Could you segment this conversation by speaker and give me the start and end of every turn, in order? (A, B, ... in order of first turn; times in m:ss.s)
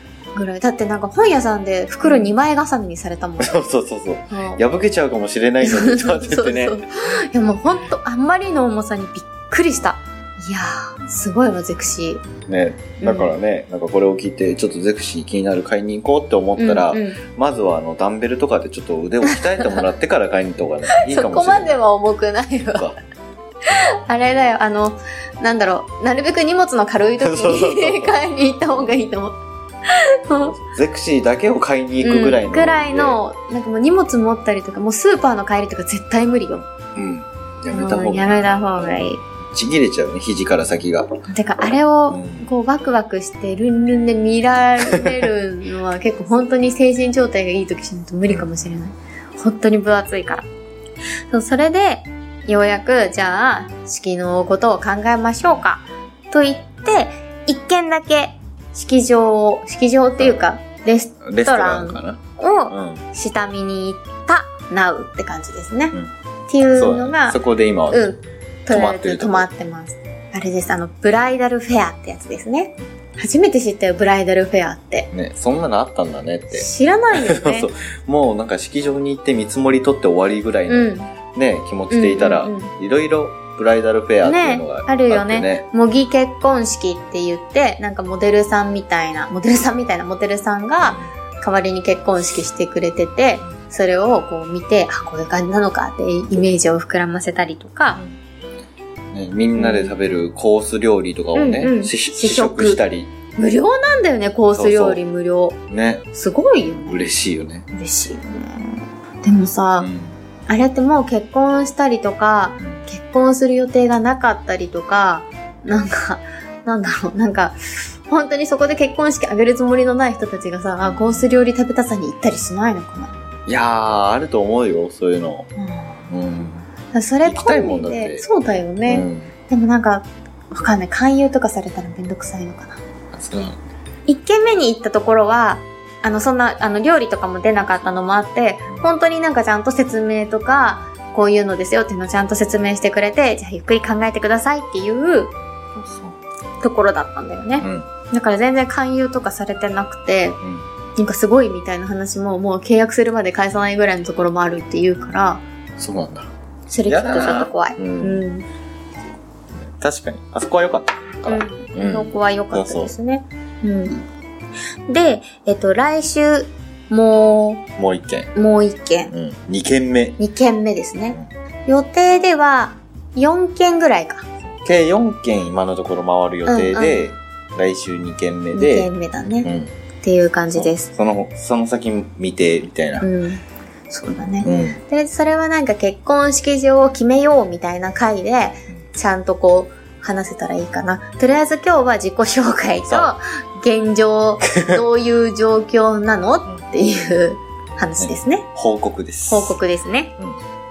0:00.3-0:03.7 A
0:02.0-0:02.3 B
0:03.4-0:06.8 B
0:04.3-0:04.6 A
0:05.6-0:12.3 A
0:12.4-0:21.8 B
0:13.0-0:13.3 A
0:16.6-0:17.2 A
0:19.2-0:19.9 A
0:20.9-0:22.9 A
0:23.6-0:30.6 A
0:27.2-0:28.9 B
0:30.4-0:33.2 B
0:32.0-0:36.7 A
0:36.9-0:41.1 B
0:37.7-0:39.2 A
0:41.3-0:50.5 A
0:42.1-0:42.5 B
0:51.3-1:06.0 A
1:01.2-1:03.0 B
1:06.5-1:07.4 A
1:06.7-1:08.0 B
1:07.9-1:15.1 A
1:08.7-1:09.5 B
1:15.1-1:25.6 B
1:16.5-1:17.7 A
1:20.7-1:21.1 A
1:21.9-1:22.7 A
1:24.2-1:38.0 A
1:30.8-1:31.1 B
1:39.1-1:43.1 B
1:39.5-1:39.9 A
1:41.3-1:42.8 A
1:43.4-1:45.6 A
1:44.5-1:45.0 B
1:45.7-1:46.1 B
1:46.1-1:47.1 A
1:46.9-1:47.7 B
1:47.7-1:49.9 A
1:49.8-1:50.2 B
1:50.5-2:03.1 A
1:52.6-1:52.8 B
2:00.8-2:01.3 B
2:03.5-2:05.5 B
2:05.6-2:06.1 A
2:06.1-2:06.6 B
2:06.9-2:12.8 A
2:07.2-2:08.2 B
2:08.8-2:09.3 B
2:13.1-2:13.6 B
2:14.0-2:25.3 A
2:25.8-2:26.1 B
2:26.6-2:30.4 A
2:27.6-2:27.9 B
2:31.0-2:35.4 A
2:35.8-2:36.3 B
2:36.7-2:38.4 A
2:36.8-2:38.2 B
2:39.6-2:42.9 B
2:41.2-2:44.0 A
2:44.9-2:47.6 A
2:47.8-2:48.3 B
2:48.3-2:49.1 A
2:49.1-2:50.2 B
2:50.2-2:54.2 A
2:54.6-2:58.9 B
2:56.5-2:57.1 A
2:58.5-2:59.5 A
2:59.4-2:59.7 B
3:00.0-3:00.9 A
3:00.5-3:03.1 B
3:03.0-3:18.5 A
3:04.4-3:04.8 B
3:12.8-3:13.1 B
3:14.5-3:14.8 B
3:16.5-3:17.1 B
3:18.0-3:19.6 B
3:19.3-3:20.1 A